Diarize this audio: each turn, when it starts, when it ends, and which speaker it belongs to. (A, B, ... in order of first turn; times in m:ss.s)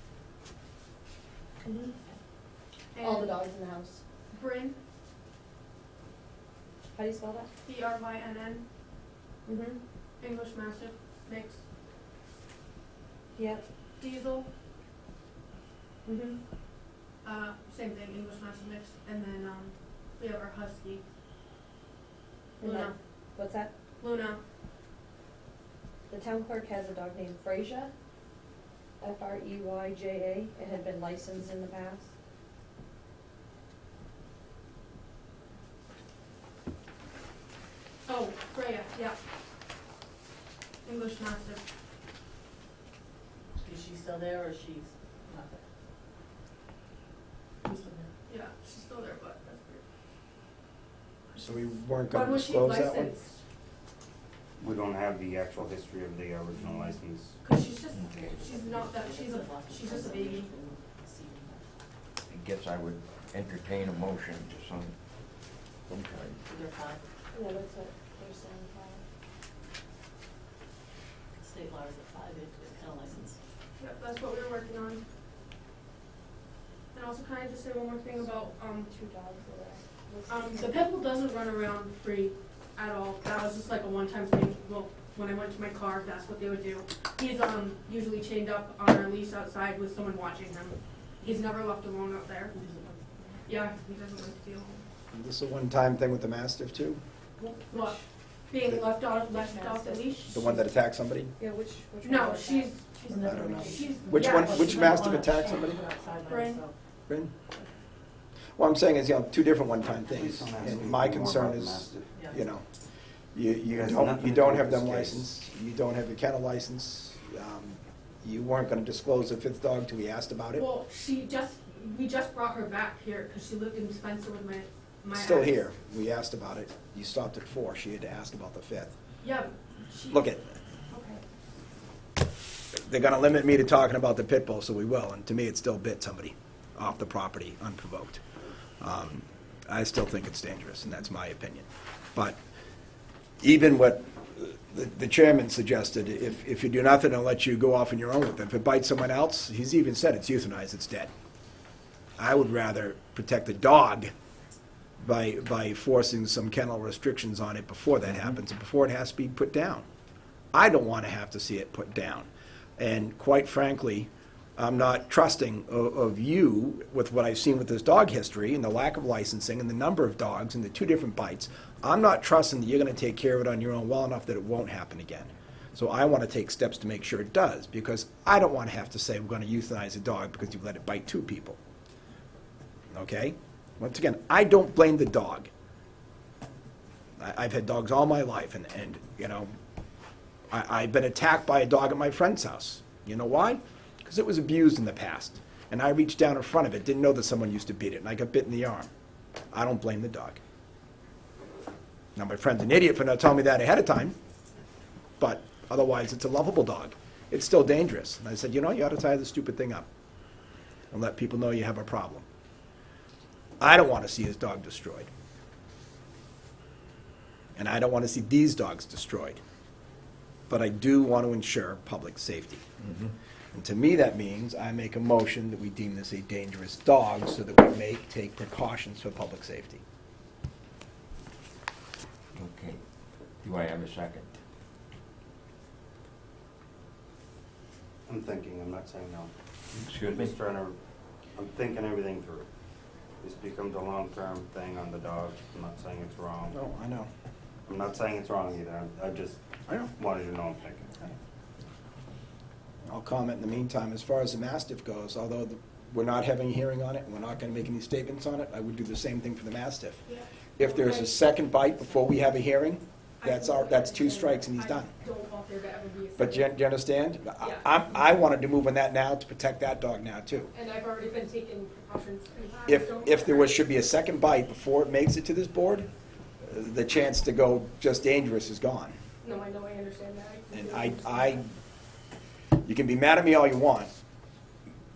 0:01.6-0:02.0 A
0:02.9-0:03.4 B
0:03.0-0:04.0 A
0:04.3-0:04.8 B
0:07.0-0:07.5 A
0:07.6-0:08.6 B
0:09.5-0:09.8 A
0:10.2-0:11.6 B
0:13.4-0:13.6 A
0:14.0-0:14.5 B
0:16.0-0:16.4 A
0:17.2-0:21.0 B
0:22.6-0:23.7 A
0:22.6-0:23.0 B
0:24.0-0:24.4 B
0:26.1-0:27.9 A
0:29.0-0:32.1 A
0:38.1-0:39.2 B
0:40.8-0:41.6 B
0:43.6-0:45.6 C
0:47.6-0:48.1 C
0:48.3-0:49.8 B
0:51.3-0:53.4 B
0:51.4-0:53.2 D
0:54.6-0:57.4 E
0:57.4-1:00.5 B
0:58.0-1:01.7 C
1:02.3-1:05.0 F
1:05.9-1:06.4 F
1:06.5-1:07.0 C
1:07.3-1:09.0 A
1:11.4-1:13.4 C
1:13.8-1:15.0 B
1:16.9-1:18.9 B
1:18.1-1:20.9 A
1:20.3-1:32.6 B
1:32.5-1:33.4 C
1:33.5-1:34.8 B
1:35.1-1:37.0 D
1:37.7-1:38.0 B
1:38.5-1:40.7 B
1:39.3-1:40.2 A
1:40.3-1:41.3 D
1:41.4-1:42.8 A
1:42.0-1:44.9 B
1:43.1-1:46.8 C
1:43.2-1:45.8 D
1:46.3-1:46.6 B
1:47.1-1:47.3 D
1:48.6-1:52.7 D
1:50.1-1:52.1 E
1:52.1-1:52.4 C
1:53.3-2:00.7 D
1:53.7-1:55.4 E
2:00.6-2:05.7 B
2:05.1-2:09.0 D
2:09.2-2:10.4 B
2:10.1-2:10.5 D
2:10.9-2:11.2 B
2:12.8-2:18.2 D
2:18.8-2:22.4 D
2:23.4-2:31.1 D
2:32.2-2:34.1 D
2:35.0-2:39.8 D
2:40.5-3:01.6 D
3:02.9-3:05.5 D
3:07.2-3:09.5 D
3:10.5-3:18.9 D
3:19.5-3:20.4 D
3:22.2-3:24.2 D
3:25.2-3:29.9 D
3:30.9-3:32.2 D
3:33.6-3:35.1 D
3:37.6-3:39.4 D
3:40.5-3:42.6 D
3:42.8-3:43.1 F
3:43.5-3:49.8 D
3:52.4-3:52.8 F
3:53.4-3:54.4 F
3:58.1-3:59.3 E
3:59.8-4:00.4 F
4:00.0-4:00.8 E
4:01.4-4:02.5 E
4:03.2-4:06.6 E
4:06.5-4:07.1 D
4:07.6-4:09.4 E
4:09.7-4:09.9 D
4:09.9-4:11.0 E
4:12.8-4:20.0 D
4:20.1-4:22.1 B
4:20.6-4:24.9 D
4:23.2-4:26.5 B
4:26.2-4:30.5 D
4:27.4-4:27.7 B
4:30.5-4:33.7 B
4:32.7-4:35.9 D
4:36.4-4:39.0 D
4:39.2-4:41.4 B
4:40.5-4:41.5 D
4:42.6-4:43.9 D